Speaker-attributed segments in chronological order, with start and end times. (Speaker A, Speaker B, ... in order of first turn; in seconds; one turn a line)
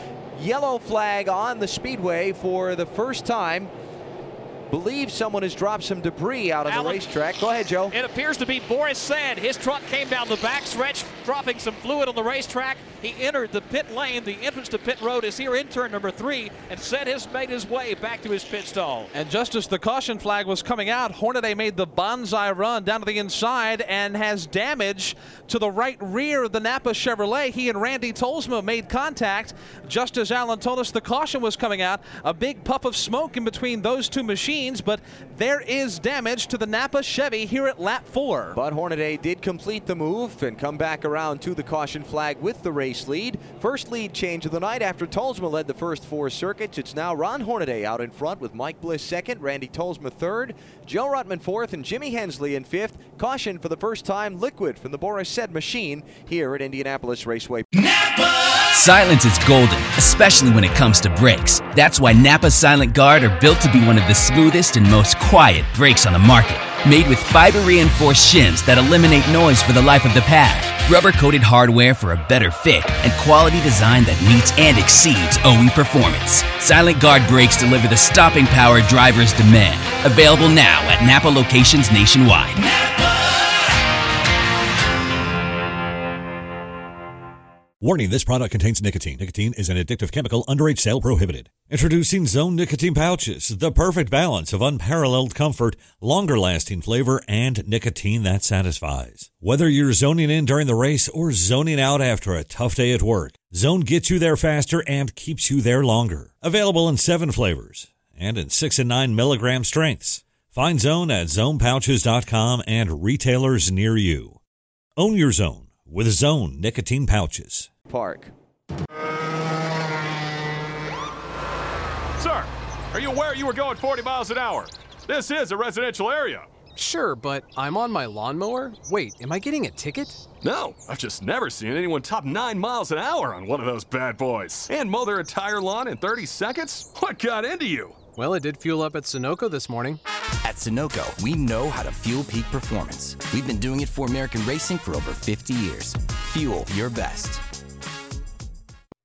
Speaker A: 0.3-3.7
Speaker A: 4.7-7.9
Speaker B: 6.7-7.0
Speaker B: 7.9-19.1
Speaker C: 19.1-38.6
Speaker A: 38.5-57.6
Speaker D: 58.7-82.7
Speaker E: 87.8-114.4
Speaker E: 115.0-117.7
Speaker A: 117.9-118.3
Speaker F: 122.2-126.5
Speaker G: 126.7-130.2
Speaker F: 130.4-138.1
Speaker G: 138.1-140.0
Speaker H: 140.4-147.4